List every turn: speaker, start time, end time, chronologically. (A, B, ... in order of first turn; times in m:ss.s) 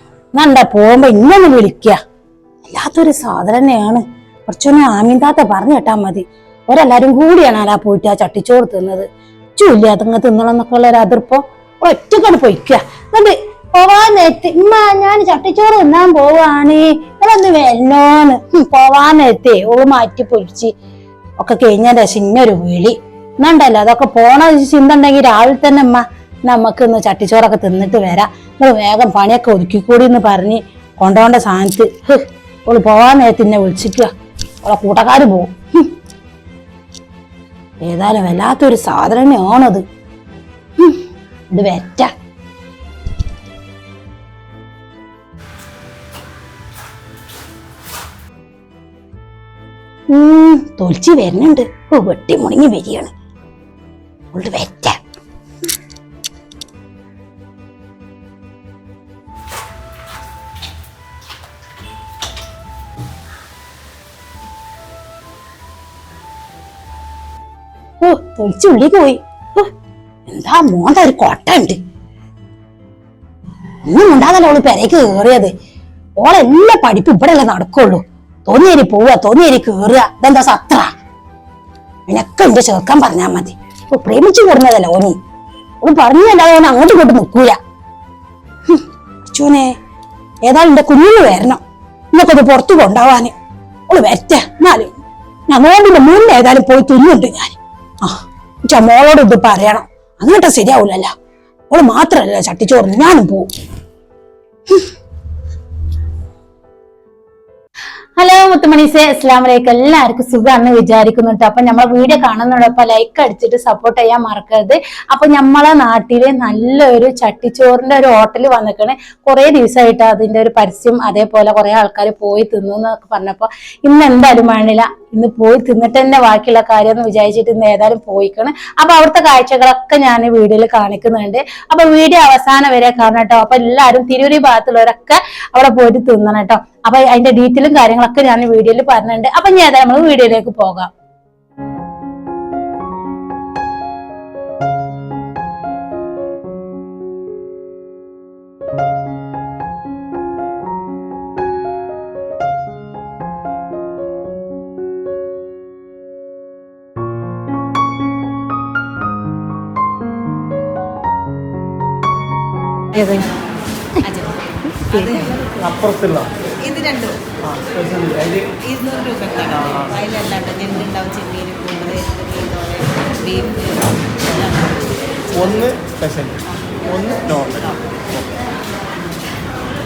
0:00.3-0:02.0 A
0:02.6-0:20.7 A
0:21.4-0:34.1 A
0:34.6-0:35.9 A
0:37.8-0:39.8 A
0:40.8-0:42.1 A
0:50.1-0:53.1 A
0:54.3-0:55.0 A
1:08.0-1:09.7 A
1:10.3-1:11.8 A
1:13.8-1:15.5 A
1:16.2-1:20.9 A
1:22.1-1:25.2 A
1:25.8-1:27.6 A
1:28.7-1:29.7 A
1:30.4-1:33.3 A
1:33.9-1:34.9 A
1:35.5-1:41.1 A
1:41.7-1:43.5 A
1:48.2-2:20.9 A
2:43.0-2:43.3 B
2:44.0-2:45.8 B
2:45.8-2:46.3 C
2:46.6-2:47.3 B
2:47.6-2:48.6 C
2:48.6-2:55.8 B
2:55.5-2:58.2 C